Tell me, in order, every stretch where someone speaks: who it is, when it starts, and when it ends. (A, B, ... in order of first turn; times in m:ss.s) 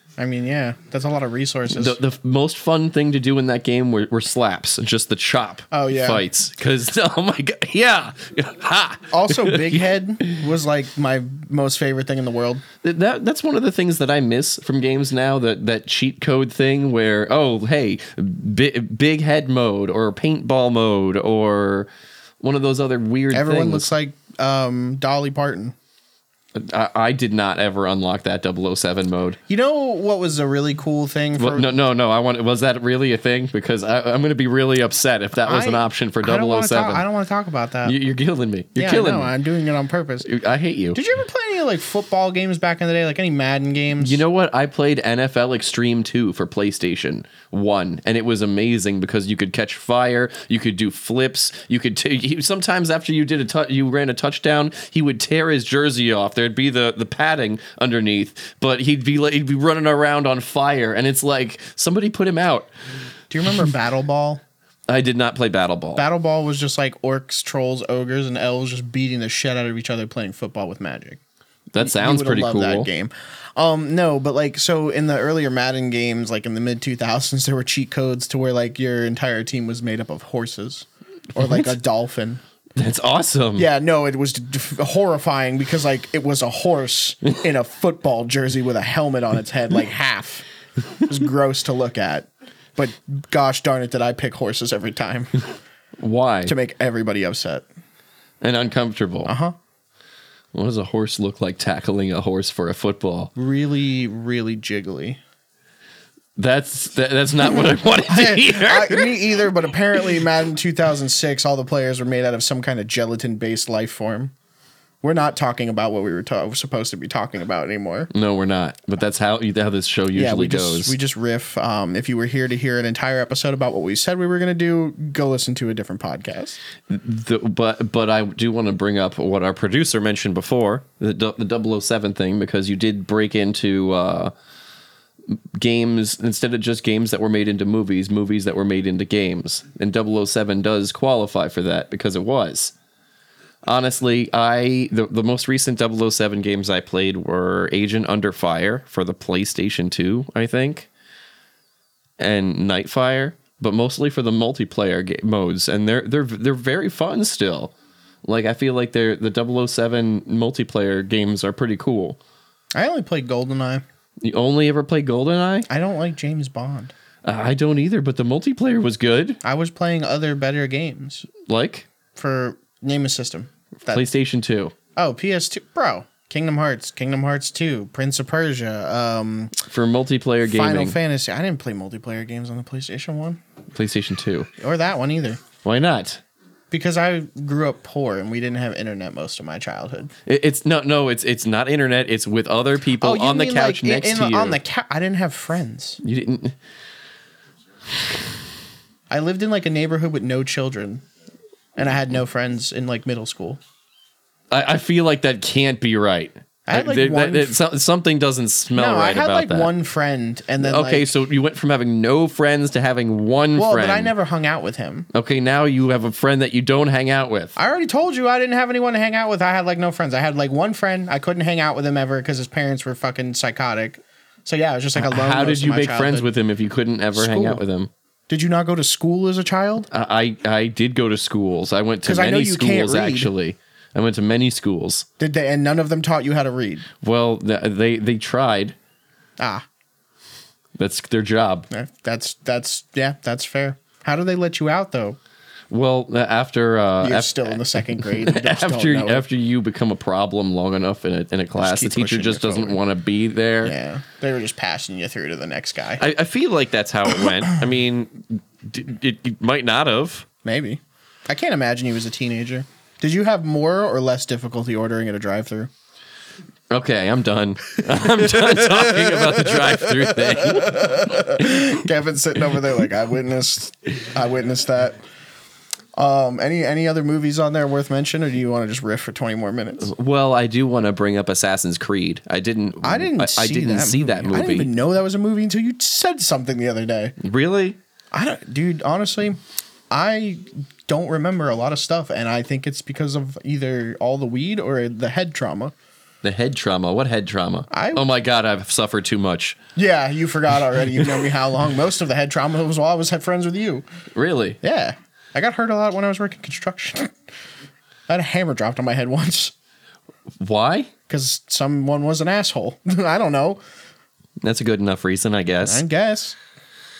0:00.2-0:02.0 A
0:01.7-0:09.9 B
0:05.7-0:06.2 A
0:09.1-0:12.6 A
0:12.8-0:21.9 B
0:22.4-0:23.9 B
0:23.3-0:25.7 A
0:26.5-0:29.4 B
0:29.5-0:31.7 A
0:31.4-0:37.0 B
0:35.4-0:38.0 A
0:37.8-0:39.3 B
0:38.8-0:40.3 A
0:40.2-0:41.0 B
0:40.9-0:44.2 A
0:44.0-1:02.7 B
1:03.3-1:04.4 A
1:04.9-1:06.0 B
1:05.9-1:11.2 A
1:11.7-1:12.9 B
1:11.8-1:22.4 A
1:22.8-1:23.7 B
1:23.6-1:30.5 A
1:31.0-1:35.4 A
1:36.0-1:36.5 B
1:36.4-1:37.6 A
1:38.4-1:39.3 B
1:39.2-1:39.5 A
1:40.5-1:43.3 B
1:43.4-1:45.2 A
1:46.4-1:49.2 B
1:47.6-1:54.3 A
1:55.0-1:58.1 A
1:58.1-2:01.0 B
2:00.1-2:06.6 A
2:06.9-2:14.3 B
2:15.3-2:22.7 B
2:23.6-2:30.9 B
2:32.2-2:42.2 B
2:42.7-2:43.8 A
2:44.2-2:45.7 B
2:45.7-2:46.9 A
2:47.2-2:49.4 B
2:49.4-2:51.3 A
2:51.4-2:51.9 B
2:52.1-2:54.0 A
2:53.9-2:54.7 B
2:55.0-2:59.5 A
2:59.6-3:01.0 B
3:00.4-3:03.4 A
3:03.7-3:04.5 B
3:04.6-3:05.4 A
3:05.6-3:06.2 B
3:06.7-3:10.1 A
3:10.2-3:14.6 B
3:13.0-3:16.0 A
3:16.0-3:16.6 B
3:19.1-3:21.0 A
3:21.8-3:23.6 A
3:24.5-3:29.7 B
3:26.7-3:27.6 A
3:28.7-3:31.1 A
3:30.6-3:34.1 B
3:33.5-3:35.1 A
3:35.1-3:37.5 B
3:37.6-3:46.3 A
3:44.9-3:47.9 B
3:47.1-3:47.6 A
3:48.3-3:49.9 A
3:49.9-3:55.0 B
3:52.0-3:53.3 A
3:55.2-3:56.9 A
3:57.0-3:58.8 B
3:59.4-3:59.6 A
4:00.8-4:01.7 B
4:01.7-4:05.2 A
4:05.7-4:13.7 B
4:07.0-4:09.2 A
4:11.6-4:12.8 A
4:13.6-4:16.0 A
4:16.0-4:20.3 B
4:20.4-4:25.7 A
4:26.7-4:31.6 B
4:30.2-4:35.0 A
4:36.0-4:39.9 A
4:39.8-4:44.7 B
4:42.8-4:47.2 A
4:47.2-4:47.8 B
4:48.1-4:49.4 A
4:49.9-4:55.7 A
4:56.2-4:59.6 B
4:57.7-4:58.0 A
4:59.8-5:03.8 A
5:04.1-5:04.6 B
5:04.6-5:07.1 A
5:08.1-5:09.5 A
5:10.4-5:10.9 B
5:11.1-5:13.6 A
5:14.4-5:15.8 B
5:15.6-5:16.4 A